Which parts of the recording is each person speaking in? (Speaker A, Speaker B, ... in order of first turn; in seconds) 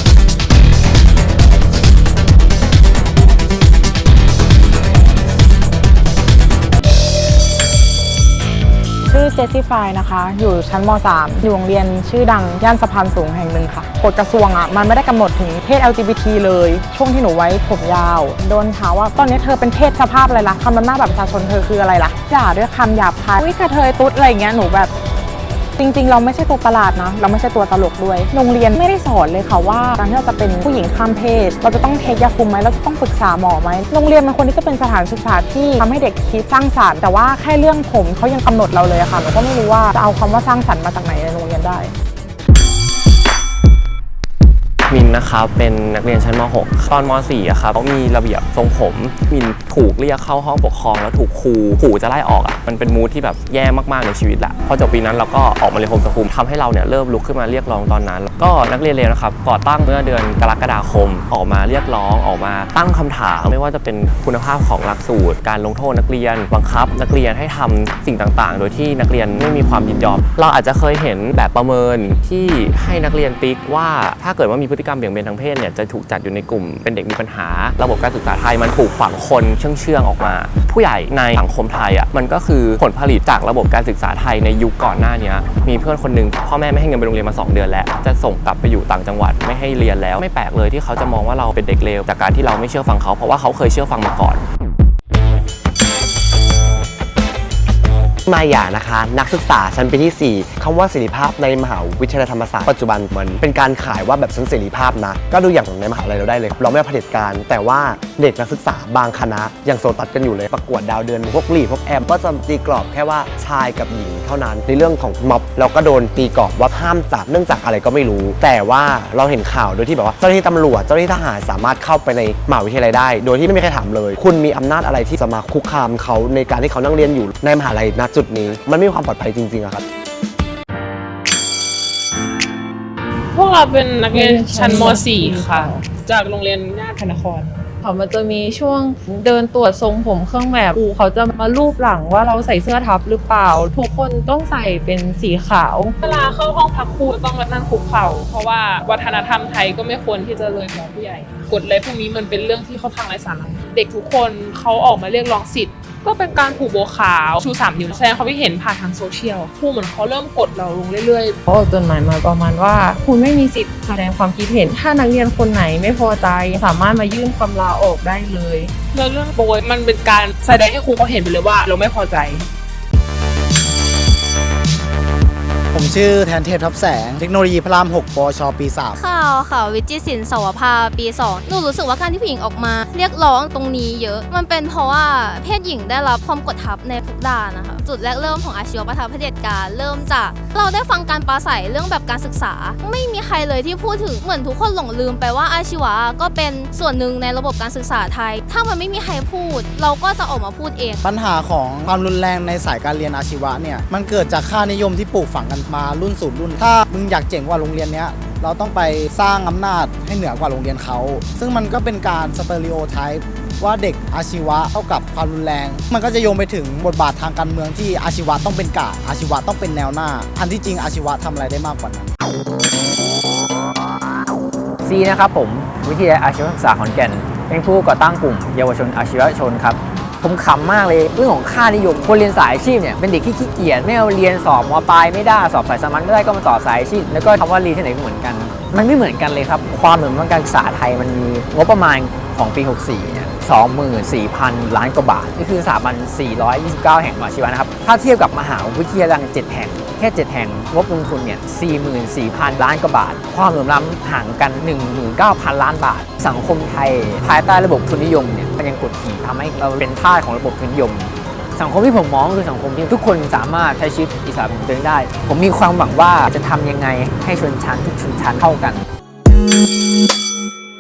Speaker A: 9.1-24.9, 25.8-41.9
Speaker B: 44.9-94.4
Speaker C: 98.3-129.8
Speaker D: 133.3-137.5, 146.0-161.4, 168.9-172.5
Speaker E: 134.1-135.8, 137.1-146.0, 161.5-168.7
Speaker F: 175.7-179.0, 201.0-222.1
Speaker G: 179.0-201.0
Speaker H: 224.8-268.8